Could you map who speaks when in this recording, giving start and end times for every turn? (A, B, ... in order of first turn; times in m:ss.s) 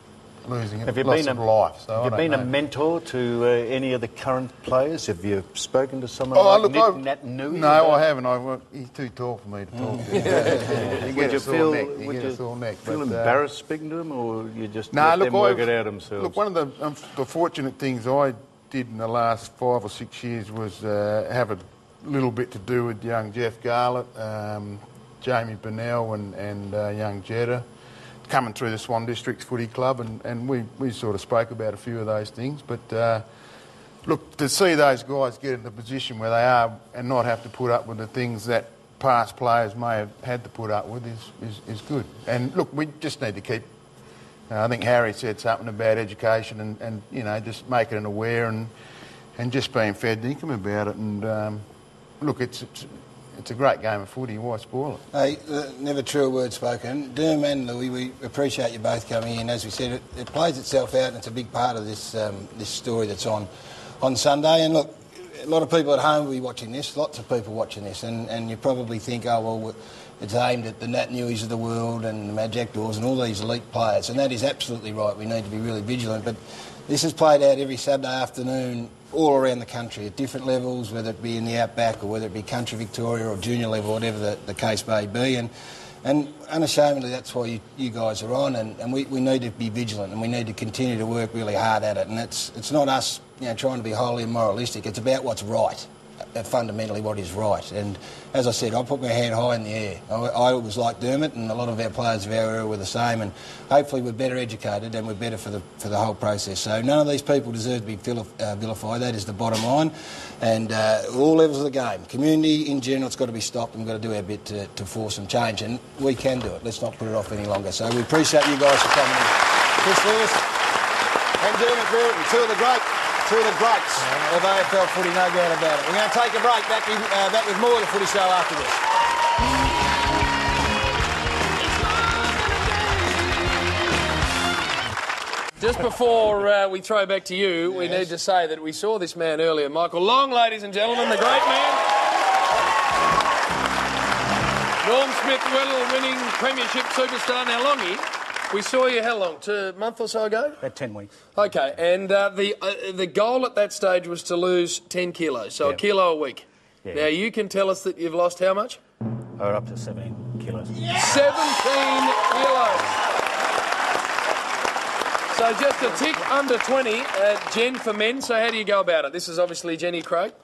0:00.4-0:02.5 A
0:00.8-0:08.0 B
0:06.3-0:13.4 A
0:09.8-0:11.0 C
0:10.4-0:16.4 B
0:14.9-0:27.6 A
0:28.3-0:33.2 A
0:34.0-0:43.6 A
0:44.5-0:48.7 A
0:49.4-0:51.6 A
0:52.2-0:55.0 A
0:55.1-1:03.5 C
1:04.0-1:25.5 C
1:26.0-2:00.5 C
2:01.4-2:08.8 C
2:11.7-2:13.2 D
2:15.6-2:21.8 D
2:17.7-2:18.1 C
2:24.8-2:30.6 D
2:30.6-2:31.1 E
2:31.3-2:38.8 D
2:36.8-2:37.1 E
2:39.4-2:41.4 E
2:40.9-2:42.9 D
2:45.3-2:50.3 D